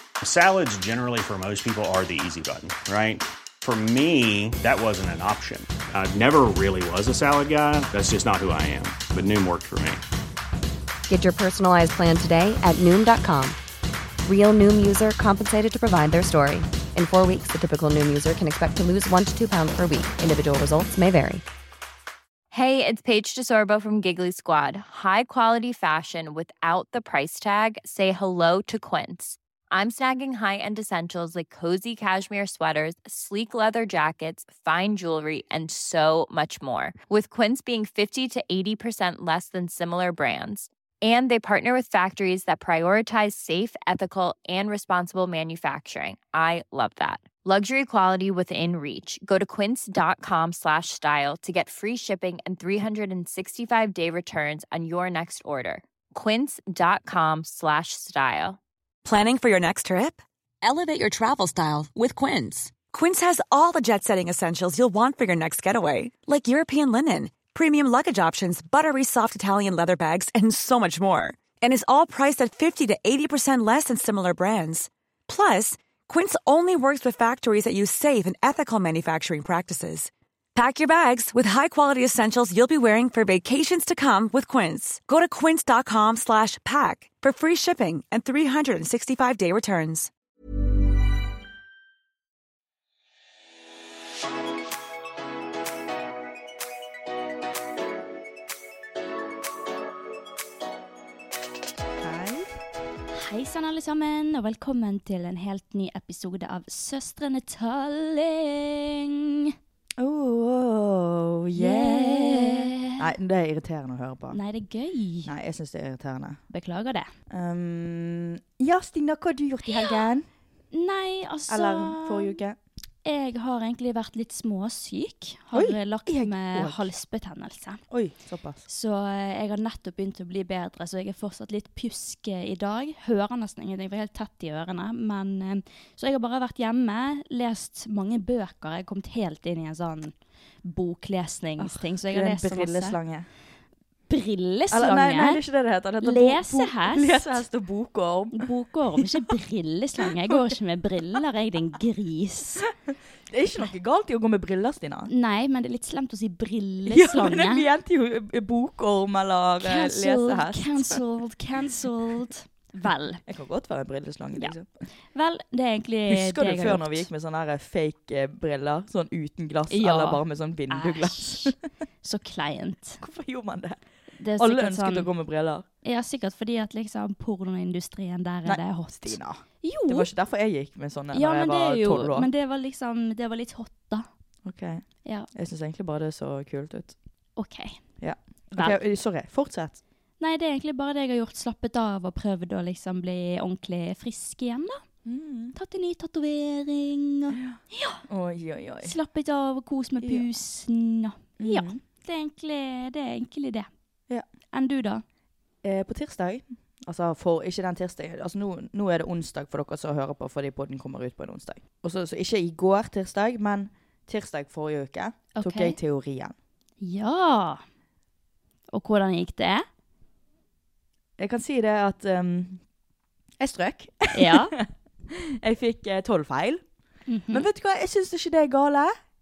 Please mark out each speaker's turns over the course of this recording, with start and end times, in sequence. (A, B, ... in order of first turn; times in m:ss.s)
0:00.2-0:10.0 A
0:11.1-0:13.6 B
0:14.2-0:21.4 B
0:22.5-0:58.6 C
0:59.0-1:30.1 D
1:42.0-1:42.6 E
1:43.2-1:49.2 F
1:50.0-1:54.4 E
1:51.6-1:53.0 F
1:54.3-1:55.3 F
1:55.3-1:56.4 E
1:56.5-1:57.1 F
1:57.3-2:00.3 E
1:59.7-2:00.0 F
2:00.7-2:02.4 F
2:01.5-2:02.6 E
2:03.0-2:07.8 F
2:05.5-2:06.9 E
2:07.9-2:08.6 E
2:08.7-2:23.0 F
2:21.6-2:23.3 E
2:24.1-2:25.4 F
2:24.7-2:28.4 E
2:26.0-2:27.4 F
2:28.3-2:32.7 F
2:33.3-2:35.1 E
2:35.1-2:37.7 F
2:36.9-2:41.0 E
2:39.6-2:43.2 F
2:43.3-2:44.7 E
2:45.1-2:47.1 F
2:46.1-2:51.6 E
2:49.7-2:53.0 F
2:53.0-2:53.8 E
2:54.2-2:55.1 F
2:54.4-2:55.7 E
2:55.8-3:00.1 F
2:58.5-3:02.3 E
3:01.1-3:04.1 F
3:04.5-3:07.0 E
3:07.4-3:07.8 F
3:08.0-3:09.8 E
3:10.2-3:14.8 F
3:15.0-3:15.6 E
3:15.6-3:18.0 F
3:17.3-3:18.9 E
3:18.8-3:23.7 F
3:20.0-3:20.3 E
3:21.4-3:21.8 E
3:24.5-3:25.0 F
3:25.6-3:36.3 E
3:35.3-3:35.8 F
3:36.8-3:37.6 F
3:38.7-3:39.7 F
3:41.2-3:42.6 E
3:43.4-3:46.6 E
3:44.1-3:44.5 F
3:47.1-3:47.5 F
3:47.3-3:48.9 E